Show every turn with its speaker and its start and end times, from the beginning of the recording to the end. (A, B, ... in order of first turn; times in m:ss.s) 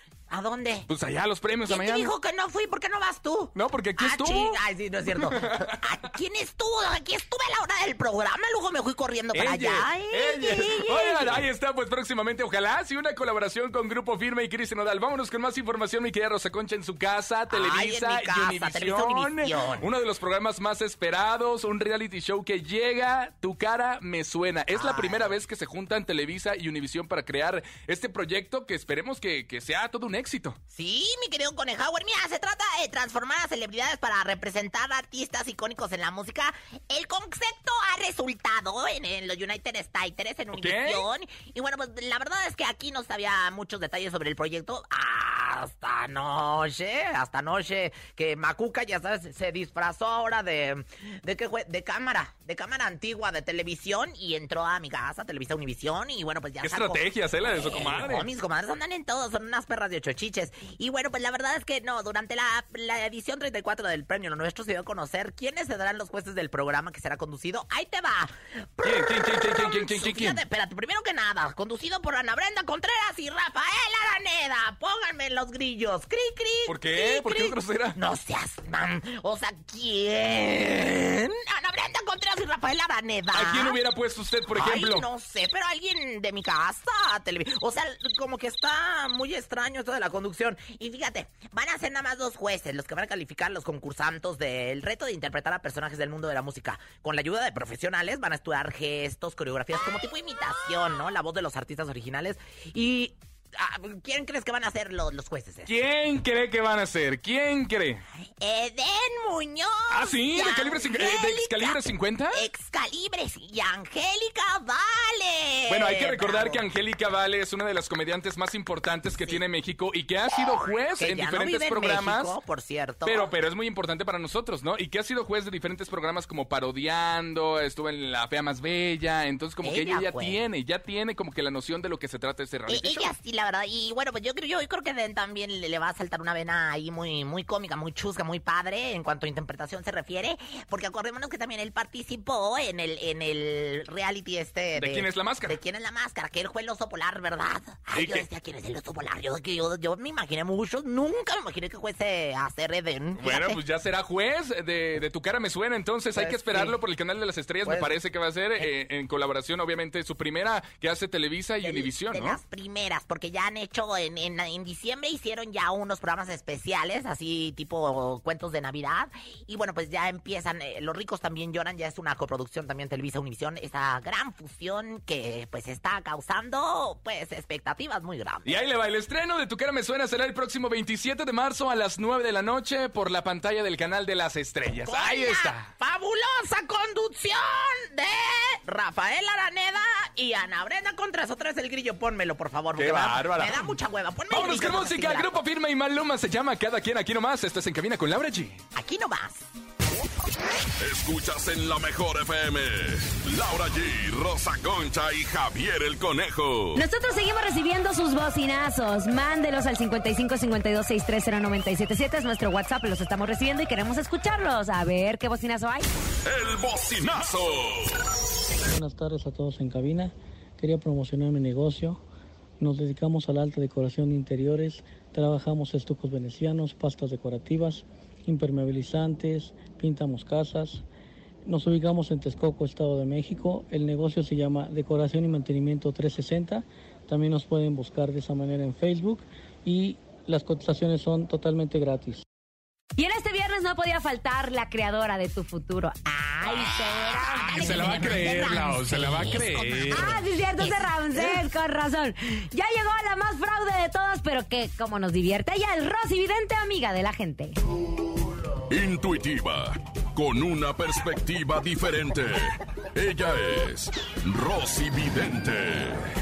0:00.3-0:00.9 A
0:00.9-0:02.1 B
0:01.7-0:11.4 A
0:03.6-0:04.6 B
0:05.1-0:05.8 B
0:09.3-0:30.6 B
0:17.5-0:19.9 A
0:24.7-0:25.3 A
0:30.7-1:23.8 A
0:40.5-0:41.0 B
0:56.6-0:58.3 B
1:08.8-1:10.4 B
1:16.7-1:18.0 B
1:23.3-1:25.0 B
1:24.5-1:45.7 A
1:45.7-1:48.0 B
1:48.4-1:51.8 A
1:49.9-1:52.4 B
1:52.3-1:56.6 A
1:55.7-2:02.3 B
2:01.0-2:03.3 A
2:03.0-2:13.1 B
2:09.6-2:10.4 A
2:12.7-2:33.6 A
2:24.8-2:25.6 B
2:27.9-2:28.3 B
2:33.2-2:42.4 B
2:36.1-2:36.8 A
2:37.6-2:37.9 A
2:41.6-2:58.6 A
2:58.4-3:05.7 B
3:04.8-3:15.4 A
3:12.8-3:13.7 B
3:14.3-3:18.6 B
3:18.7-3:19.4 A
3:20.8-3:26.8 C
3:26.7-3:35.9 D
3:36.2-3:38.0 C
3:38.7-3:42.0 E
3:42.6-3:50.8 E
3:51.4-4:02.2 E
4:03.0-4:08.1 D
4:06.1-4:11.4 A
4:07.1-4:10.1 B
4:09.9-4:17.6 D
4:18.7-4:26.1 C